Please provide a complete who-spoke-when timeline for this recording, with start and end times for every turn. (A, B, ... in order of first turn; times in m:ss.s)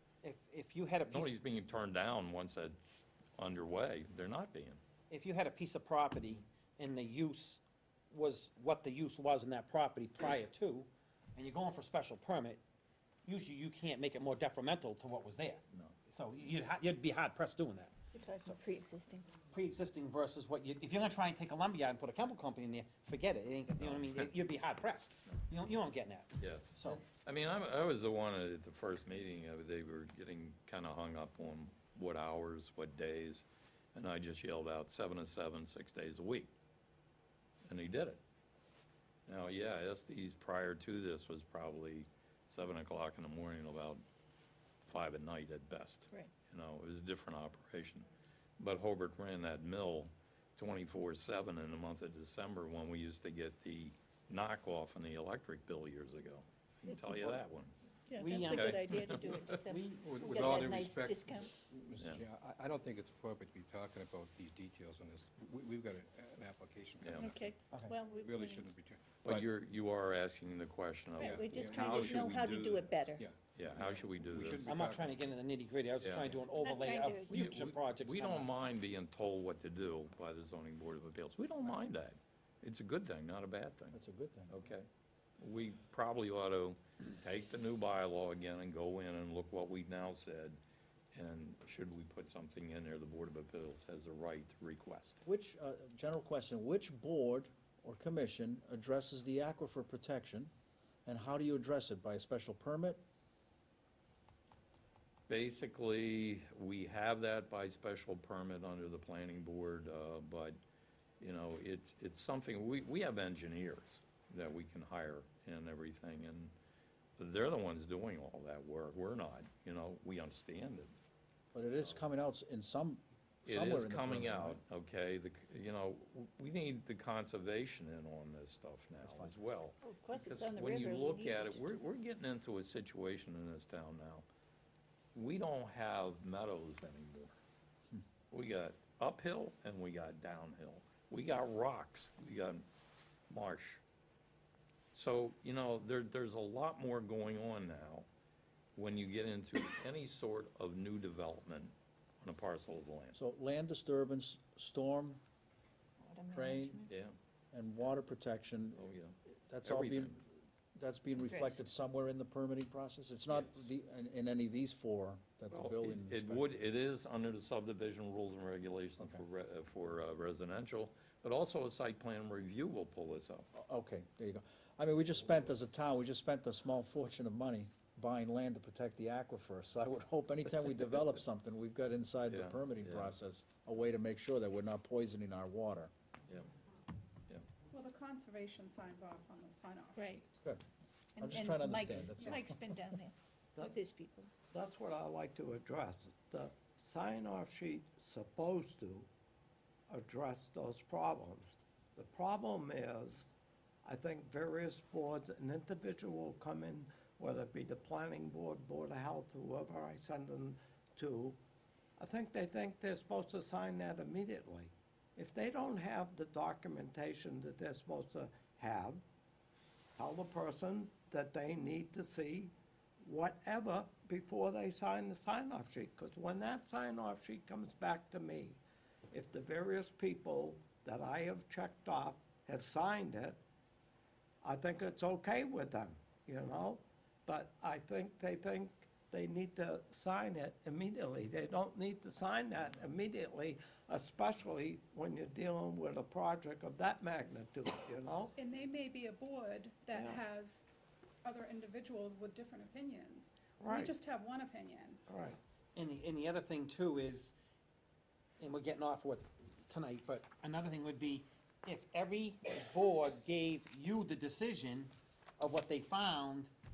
0:00.2-0:01.4 A
0:01.1-0:02.8 B
0:03.4-0:04.8 B
0:05.1-0:12.6 A
0:13.2-0:17.9 A
0:18.1-0:19.2 C
0:19.5-0:27.0 A
0:23.8-0:24.3 B
0:26.4-0:36.5 B
0:37.7-0:38.2 B
0:39.3-0:44.0 B
0:44.9-0:48.1 B
0:48.6-0:57.7 B
0:58.1-1:01.5 C
0:58.2-0:58.7 A
0:58.4-0:59.6 B
0:59.6-1:00.4 A
0:59.9-1:07.5 D
1:02.0-1:02.2 B
1:07.0-1:07.3 B
1:07.1-1:08.7 C
1:07.7-1:08.0 A
1:08.0-1:09.5 D
1:09.2-1:12.8 B
1:11.2-1:13.3 C
1:11.2-1:15.4 D
1:13.6-1:14.7 B
1:14.6-1:18.5 A
1:16.0-1:16.4 B
1:16.6-1:17.5 C
1:17.2-1:24.0 B
1:23.9-1:24.5 E
1:24.5-1:24.9 B
1:25.4-1:30.6 B
1:31.1-1:35.2 B
1:35.2-1:40.5 E
1:41.1-1:43.0 E
1:45.3-1:50.6 B
1:51.2-1:56.5 B
1:57.2-2:01.0 B
2:01.5-2:04.6 E
2:03.5-2:14.3 B
2:09.0-2:09.3 E
2:09.8-2:11.6 C
2:15.2-2:17.4 B
2:18.3-2:22.6 B
2:23.3-2:23.8 B
2:24.9-2:28.1 B
2:28.8-2:33.2 B
2:33.1-2:35.2 E
2:36.0-2:36.9 C
2:36.3-2:36.9 E
2:36.9-2:37.1 B
2:37.5-2:46.5 E
2:38.8-2:40.2 B
2:41.2-2:41.6 C
2:43.3-2:43.7 B
2:45.5-2:53.5 B
2:53.5-3:05.9 E
3:02.3-3:03.1 B
3:07.7-3:10.0 F
3:10.0-3:10.3 C
3:11.2-3:14.3 C
3:11.2-3:12.8 E
3:11.7-3:12.4 F
3:14.5-3:19.1 G
3:19.9-3:31.4 G
3:32.0-3:39.0 G
3:40.0-3:48.6 G
3:49.1-3:53.4 G
3:54.4-4:08.3 G
4:08.4-4:10.7 F
4:09.9-4:10.2 G
4:11.2-4:15.0 F
4:13.6-4:14.0 G
4:15.1-4:15.4 G
4:15.8-4:17.3 A
4:18.4-4:26.5 A